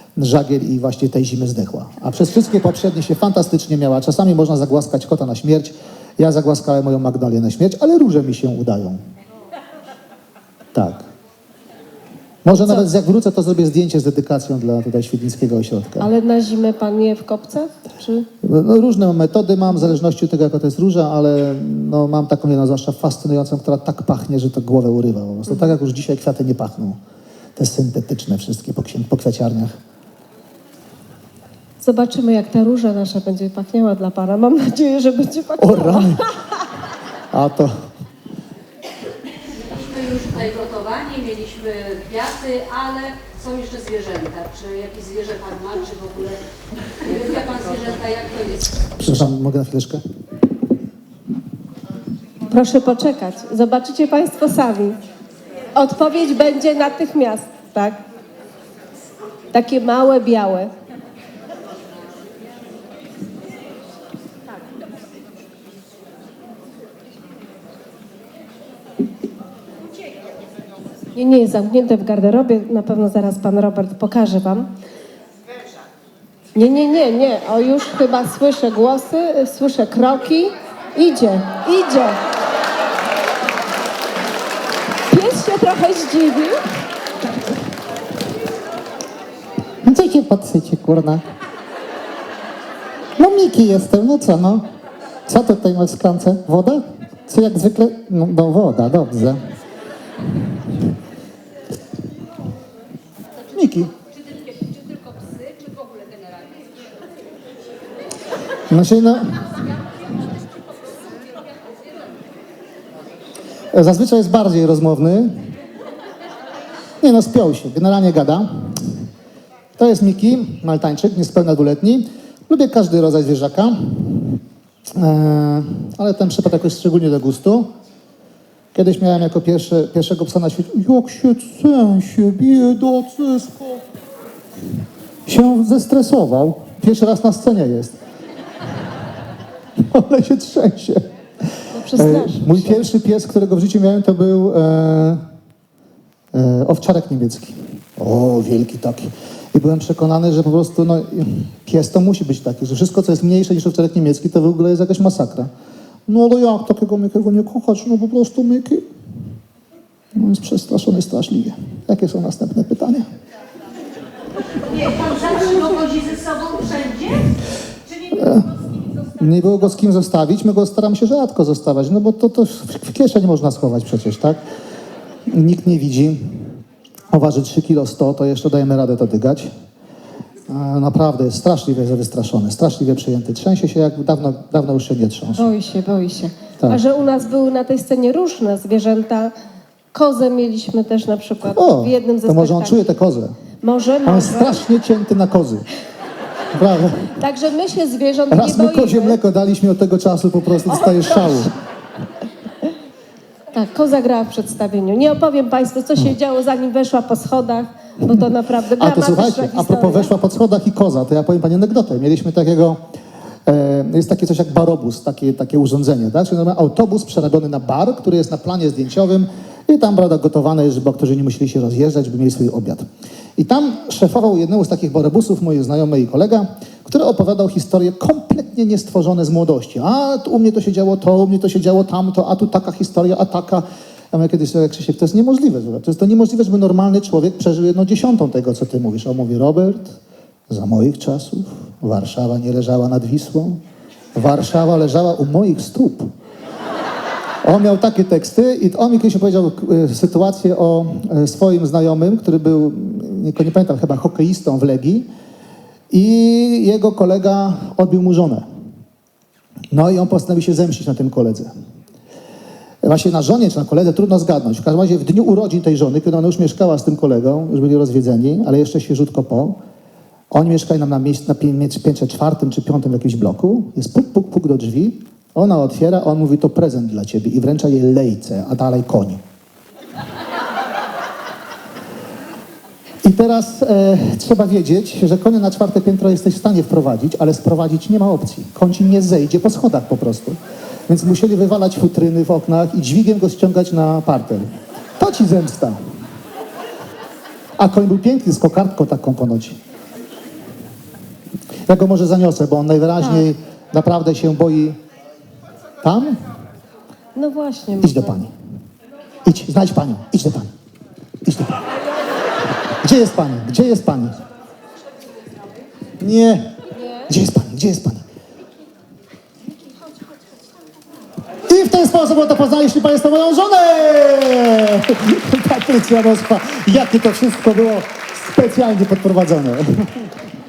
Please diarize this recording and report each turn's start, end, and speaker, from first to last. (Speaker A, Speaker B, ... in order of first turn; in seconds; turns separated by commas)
Speaker A: 0.1-9.0, Speaker A: 10.7-11.1, Speaker A: 12.4-16.1, Speaker B: 12.5-12.9, Speaker B: 16.0-18.3, Speaker A: 18.4-27.0, Speaker A: 27.6-29.8, Speaker B: 31.8-36.4, Speaker A: 35.6-36.2, Speaker A: 37.3-37.8, Speaker C: 39.7-46.4, Speaker C: 47.0-48.7, Speaker A: 49.0-50.0, Speaker B: 52.5-55.0, Speaker B: 55.7-58.0, Speaker B: 59.5-60.7, Speaker B: 71.1-74.7, Speaker B: 76.5-82.2, Speaker B: 85.1-86.6, Speaker A: 89.8-91.2, Speaker A: 93.2-94.7, Speaker A: 95.3-99.4, Speaker A: 103.5-103.9, Speaker C: 105.0-106.4, Speaker A: 108.7-109.6, Speaker A: 113.7-115.5, Speaker A: 117.0-119.0, Speaker A: 119.8-127.7, Speaker A: 128.7-133.8, Speaker A: 135.2-138.0, Speaker A: 139.8-145.2, Speaker B: 141.7-142.8, Speaker A: 146.3-155.5, Speaker A: 156.1-158.9, Speaker A: 160.1-163.1, Speaker C: 164.6-169.2, Speaker A: 168.1-168.5, Speaker A: 169.1-174.4, Speaker A: 175.3-179.5, Speaker A: 180.5-185.5, Speaker B: 185.3-189.3, Speaker B: 189.9-192.8, Speaker A: 191.4-193.3, Speaker B: 193.6-194.6, Speaker A: 194.0-195.6, Speaker A: 196.5-197.1, Speaker B: 197.1-199.2, Speaker A: 198.3-201.5, Speaker B: 200.8-201.4, Speaker B: 203.5-210.1, Speaker A: 208.1-212.8, Speaker A: 213.4-222.8, Speaker A: 223.4-240.0, Speaker A: 240.5-243.6, Speaker A: 244.1-246.1, Speaker A: 247.4-255.1, Speaker A: 255.9-258.4, Speaker A: 259.7-261.5, Speaker A: 262.8-269.6, Speaker A: 270.3-279.2, Speaker A: 283.0-295.8, Speaker A: 297.6-299.6, Speaker A: 301.7-304.8, Speaker A: 305.8-306.2, Speaker B: 307.1-308.2, Speaker A: 307.8-308.3, Speaker A: 309.2-310.5, Speaker A: 311.2-311.7, Speaker A: 312.8-314.2, Speaker A: 316.0-318.0, Speaker A: 321.5-330.1